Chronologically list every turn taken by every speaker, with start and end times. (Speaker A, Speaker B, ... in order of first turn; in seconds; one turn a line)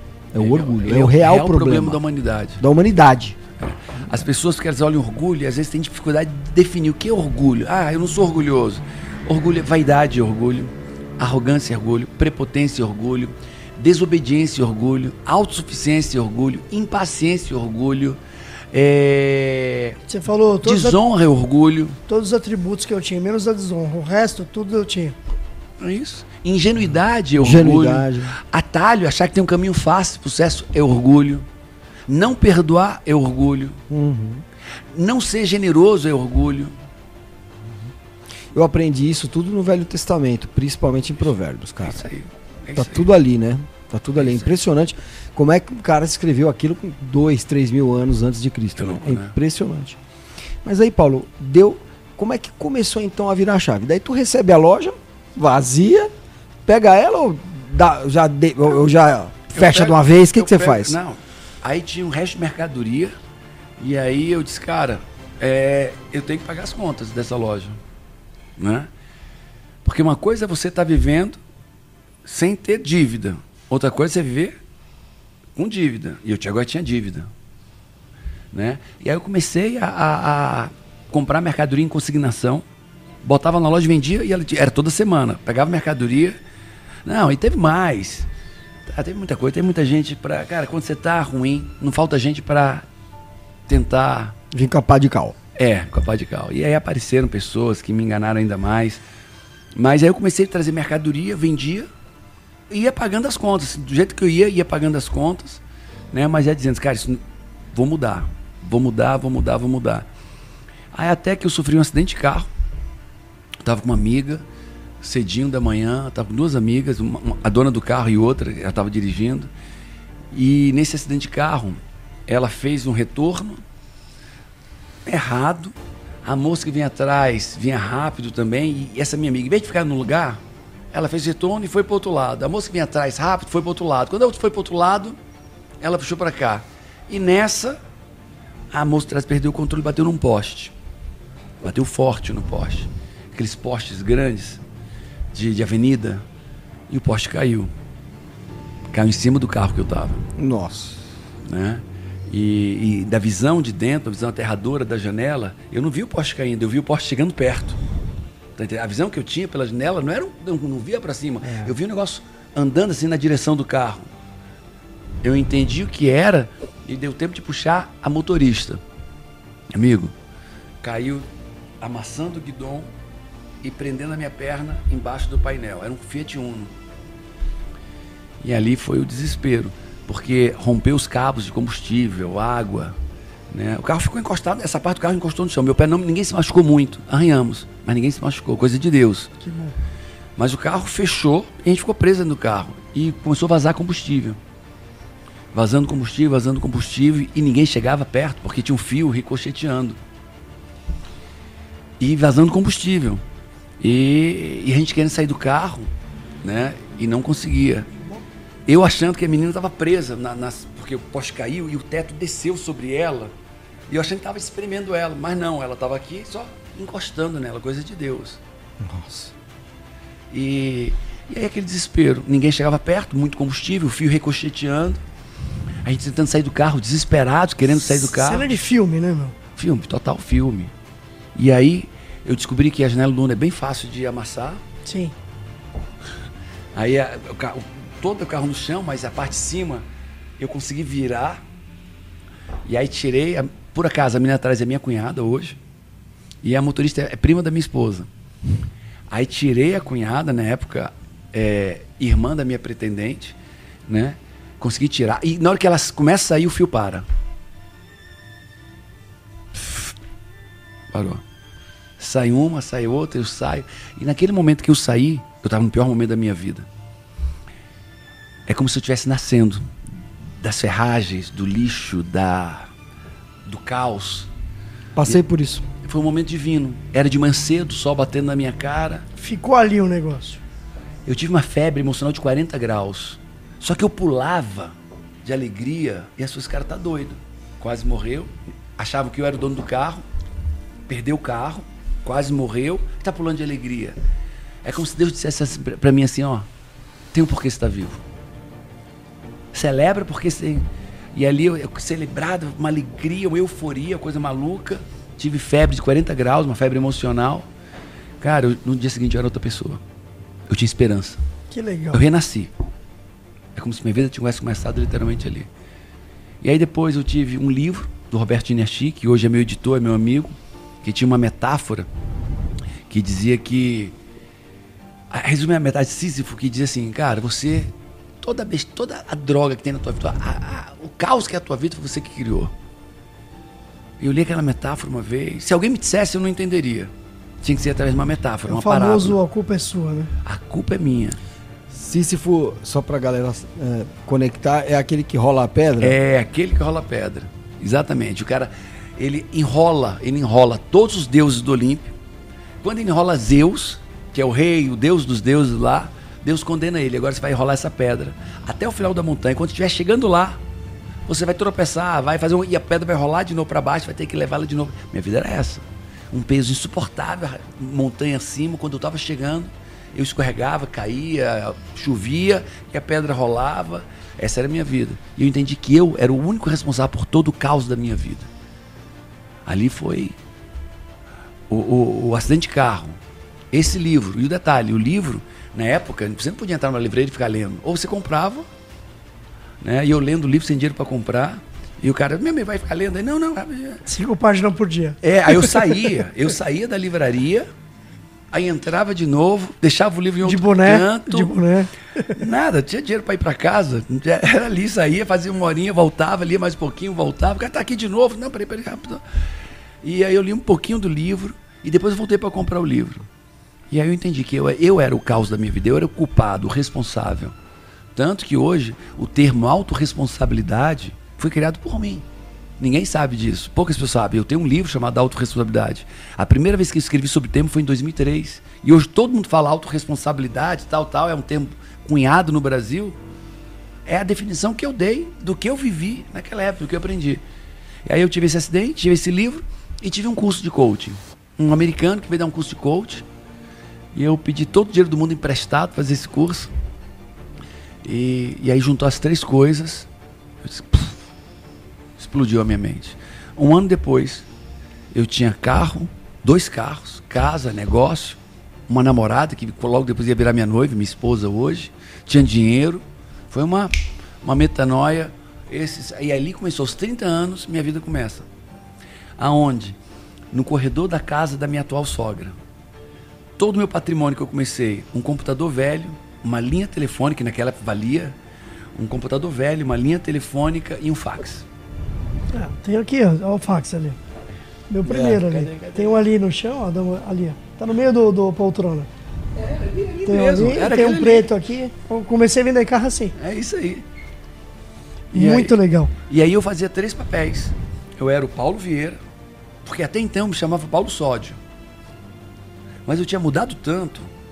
Speaker A: 0.3-2.0
Speaker B: 0.3-2.6
Speaker A: 2.6-3.4
Speaker B: 3.6-18.2
Speaker B: 18.7-20.0
Speaker C: 20.1-21.0
Speaker B: 20.6-22.0
Speaker C: 22.1-25.2
Speaker B: 25.8-31.4
Speaker A: 27.4-28.3
Speaker B: 32.1-33.8
Speaker A: 33.9-34.4
Speaker B: 34.9-36.7
Speaker A: 38.5-42.1
Speaker B: 41.8-43.1
Speaker A: 42.7-50.0
Speaker B: 44.1-44.6
Speaker B: 48.8-49.4
Speaker A: 50.6-56.1
Speaker A: 56.6-61.0
Speaker B: 59.5-63.1
Speaker B: 63.8-67.8
Speaker B: 68.6-68.9
Speaker B: 69.8-71.4
Speaker B: 72.2-74.6
Speaker B: 75.5-77.3
Speaker B: 78.5-82.6
Speaker B: 83.2-86.4
Speaker B: 87.0-88.3
Speaker B: 88.8-92.8
Speaker B: 93.7-94.3
Speaker A: 94.5-95.3
Speaker B: 95.6-99.0
Speaker B: 99.7-101.9
Speaker B: 102.7-110.0
Speaker B: 110.9-112.5
Speaker B: 113.6-114.4
Speaker B: 115.0-119.5
Speaker B: 120.3-123.6
Speaker B: 125.0-130.4
Speaker B: 130.9-135.2
Speaker B: 135.8-137.8
Speaker B: 138.7-140.7
Speaker B: 141.6-144.6
Speaker B: 145.3-146.2
Speaker B: 146.9-147.7
Speaker B: 148.9-150.2
Speaker A: 150.4-151.1
Speaker B: 151.4-157.8
Speaker B: 158.6-164.1
Speaker A: 161.4-161.7
Speaker B: 165.2-168.8
Speaker B: 169.7-170.1
Speaker B: 170.8-171.2
Speaker B: 171.8-172.9
Speaker B: 173.6-176.7
Speaker B: 178.4-183.0
Speaker B: 183.5-189.3
Speaker C: 189.4-189.7
Speaker B: 190.4-194.4
Speaker B: 195.5-200.0
Speaker B: 202.0-203.2
Speaker B: 203.8-205.9
Speaker B: 206.4-207.9
Speaker B: 208.7-213.3
Speaker B: 213.9-218.4
Speaker A: 218.8-219.3
Speaker B: 220.3-225.0
Speaker B: 225.8-228.5
Speaker C: 227.8-229.3
Speaker B: 229.5-230.7
Speaker B: 231.3-234.6
Speaker C: 234.8-235.1
Speaker B: 236.7-239.8
Speaker B: 240.4-241.4
Speaker B: 242.6-245.6
Speaker B: 246.4-248.1
Speaker B: 249.1-257.1
Speaker B: 260.9-261.2
Speaker B: 262.0-266.7
Speaker B: 268.5-269.7
Speaker B: 270.4-272.7
Speaker B: 273.4-274.3
Speaker A: 274.9-275.6
Speaker B: 275.8-279.1
Speaker C: 279.2-280.4
Speaker B: 281.1-290.0
Speaker B: 290.9-294.0
Speaker B: 294.6-296.5
Speaker B: 297.1-298.0
Speaker B: 299.5-307.5
Speaker B: 308.2-309.8
Speaker B: 310.5-311.2
Speaker C: 311.5-312.0
Speaker B: 311.9-312.5
Speaker B: 313.5-315.5
Speaker B: 316.4-321.9
Speaker B: 322.9-323.9
Speaker B: 325.1-332.5
Speaker B: 334.0-336.9
Speaker B: 337.4-339.2
Speaker C: 338.4-340.1
Speaker B: 340.2-341.2
Speaker A: 341.7-346.0
Speaker B: 345.8-351.9
Speaker B: 352.6-360.4
Speaker B: 361.1-378.3
Speaker B: 379.4-380.1
Speaker B: 381.5-383.0
Speaker B: 383.5-388.5
Speaker B: 389.6-393.8
Speaker C: 393.9-396.0
Speaker B: 395.0-397.5
Speaker B: 398.3-401.3
Speaker C: 400.2-402.1
Speaker B: 402.1-409.0
Speaker B: 409.8-413.1
Speaker B: 413.7-417.3
Speaker B: 417.9-422.0
Speaker B: 422.6-433.0
Speaker B: 433.9-437.2
Speaker B: 437.9-443.1
Speaker B: 443.9-446.5
Speaker B: 447.8-449.9
Speaker B: 450.4-451.0
Speaker B: 452.0-454.3
Speaker B: 454.9-468.3
Speaker B: 469.2-469.8
Speaker B: 470.3-472.4
Speaker B: 473.4-478.1
Speaker B: 478.7-481.5
Speaker C: 482.3-484.0
Speaker C: 484.7-488.9
Speaker B: 484.8-486.0
Speaker B: 489.3-491.3
Speaker C: 490.1-493.1
Speaker B: 493.1-493.8
Speaker C: 495.1-495.9
Speaker B: 495.1-495.6
Speaker B: 496.1-499.0
Speaker B: 499.6-501.4
Speaker B: 502.9-504.1